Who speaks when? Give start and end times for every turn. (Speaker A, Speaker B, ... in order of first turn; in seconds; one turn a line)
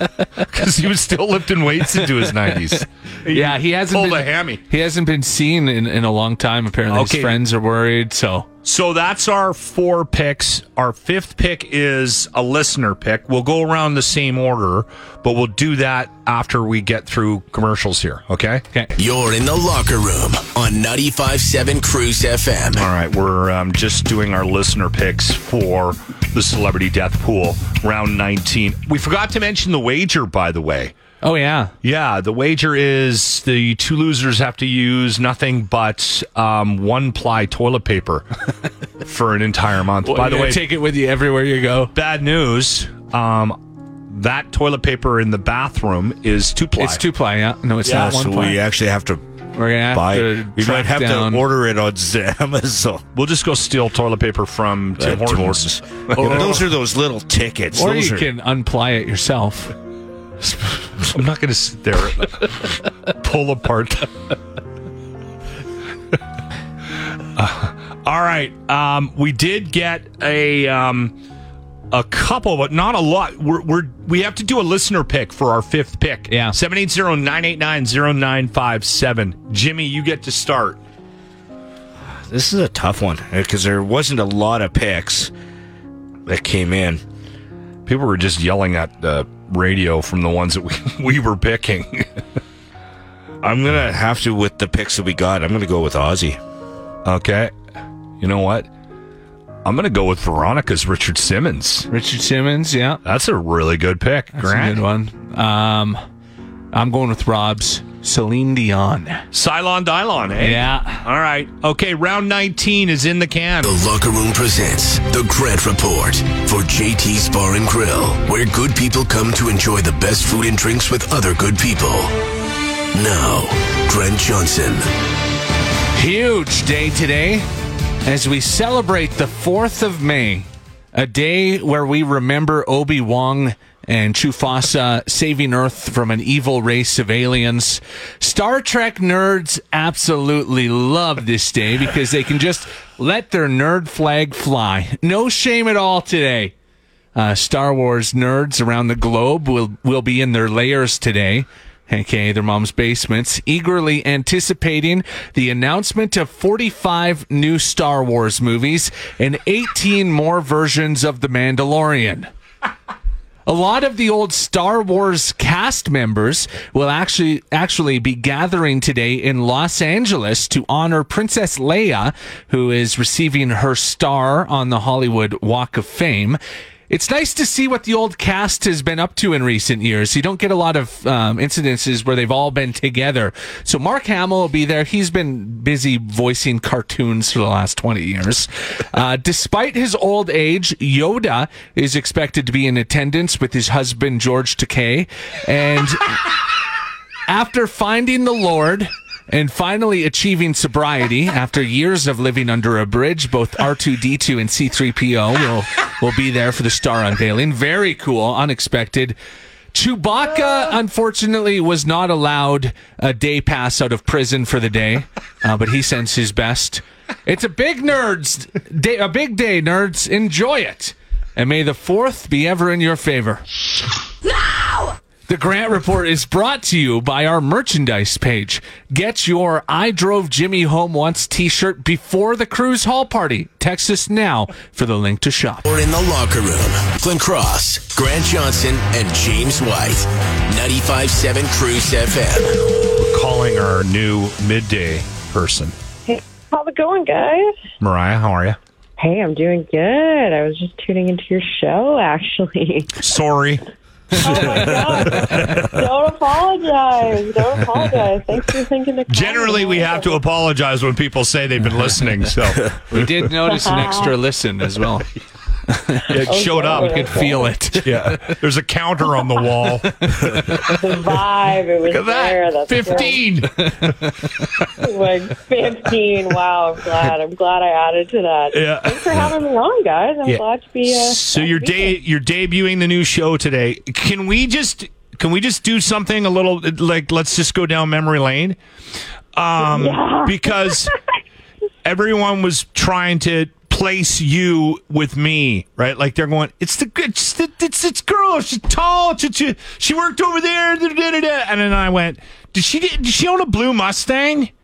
Speaker A: 0.4-4.6
Speaker B: 1.9-8.5
Speaker A: 6.9-7.3
Speaker A: 8.6-18.6
Speaker C: 19.0-22.9
Speaker A: 22.8-30.9
Speaker B: 31.2-31.7
Speaker A: 31.8-38.3
Speaker A: 39.0-40.6
Speaker B: 40.0-41.9
Speaker A: 42.0-43.6
Speaker A: 44.1-47.0
Speaker B: 46.8-48.6
Speaker D: 47.9-49.2
Speaker B: 49.5-51.5
Speaker D: 49.8-53.0
Speaker A: 53.1-56.6
Speaker D: 55.0-58.3
Speaker B: 56.1-56.7
Speaker B: 57.7-59.7
Speaker A: 61.1-64.1
Speaker A: 67.4-71.1
Speaker A: 71.9-80.8
Speaker B: 76.3-76.5
Speaker D: 82.0-85.3
Speaker D: 86.3-87.0
Speaker A: 87.9-92.2
Speaker D: 93.4-96.4
Speaker A: 97.0-97.5
Speaker A: 98.2-98.7
Speaker A: 99.7-101.9
Speaker B: 101.9-103.0
Speaker A: 103.0-104.8
Speaker B: 104.4-106.0
Speaker B: 106.7-109.2
Speaker A: 109.3-113.7
Speaker B: 110.4-111.0
Speaker C: 113.6-122.2
Speaker C: 122.9-124.9
Speaker B: 125.9-127.5
Speaker B: 128.1-146.5
Speaker B: 147.2-162.3
Speaker B: 163.5-196.3
Speaker B: 197.3-209.2
Speaker B: 209.7-223.4
Speaker B: 225.3-235.7
Speaker C: 235.7-242.6
Speaker A: 243.0-245.7
Speaker E: 246.1-247.5
Speaker A: 247.8-248.6
Speaker E: 249.0-253.0
Speaker A: 253.0-253.6
Speaker E: 254.1-260.1
Speaker A: 254.2-255.7
Speaker A: 259.1-262.8
Speaker B: 262.9-265.1
Speaker E: 263.4-264.1
Speaker B: 265.7-266.1
Speaker A: 266.1-267.1
Speaker E: 266.3-267.5
Speaker B: 266.7-268.4
Speaker A: 267.8-270.1
Speaker E: 270.6-273.2
Speaker A: 271.9-273.7
Speaker B: 273.6-274.3
Speaker E: 274.6-282.0
Speaker A: 278.5-279.3
Speaker A: 280.3-288.6
Speaker A: 289.4-290.9
Speaker E: 289.6-290.9
Speaker A: 291.8-304.5